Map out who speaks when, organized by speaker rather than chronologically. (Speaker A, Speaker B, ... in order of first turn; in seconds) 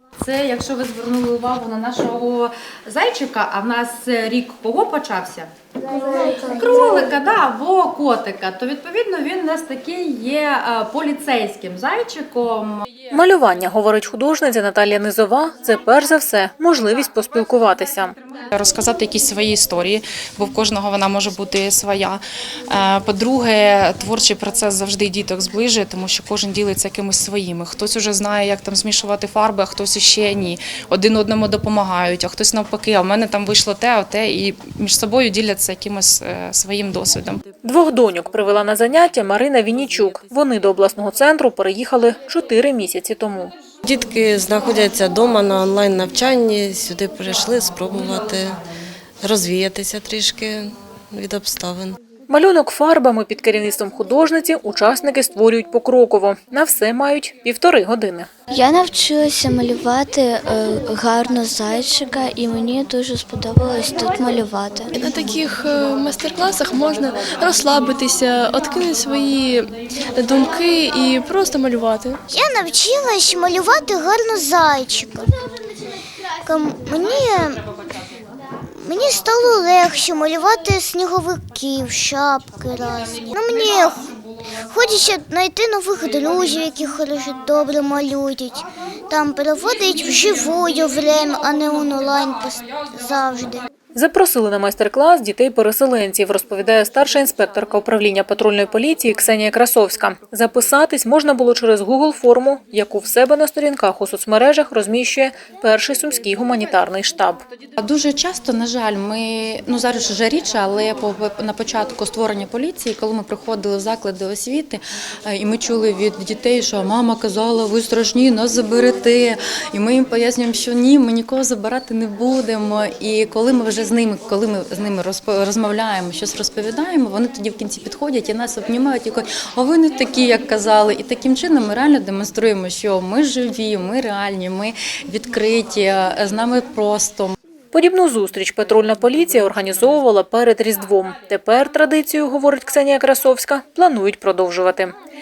Speaker A: 0.2-12.8, 107.8-137.3
Speaker B: 13.1-18.1, 37.6-43.5, 52.3-58.3, 93.9-107.4, 137.7-144.9
Speaker C: 18.5-37.4
Speaker D: 43.9-48.5, 49.2-52.0
Speaker E: 58.5-64.9
Speaker F: 64.9-72.2
Speaker G: 72.3-75.2, 76.4-77.6, 78.7-84.0, 84.7-93.6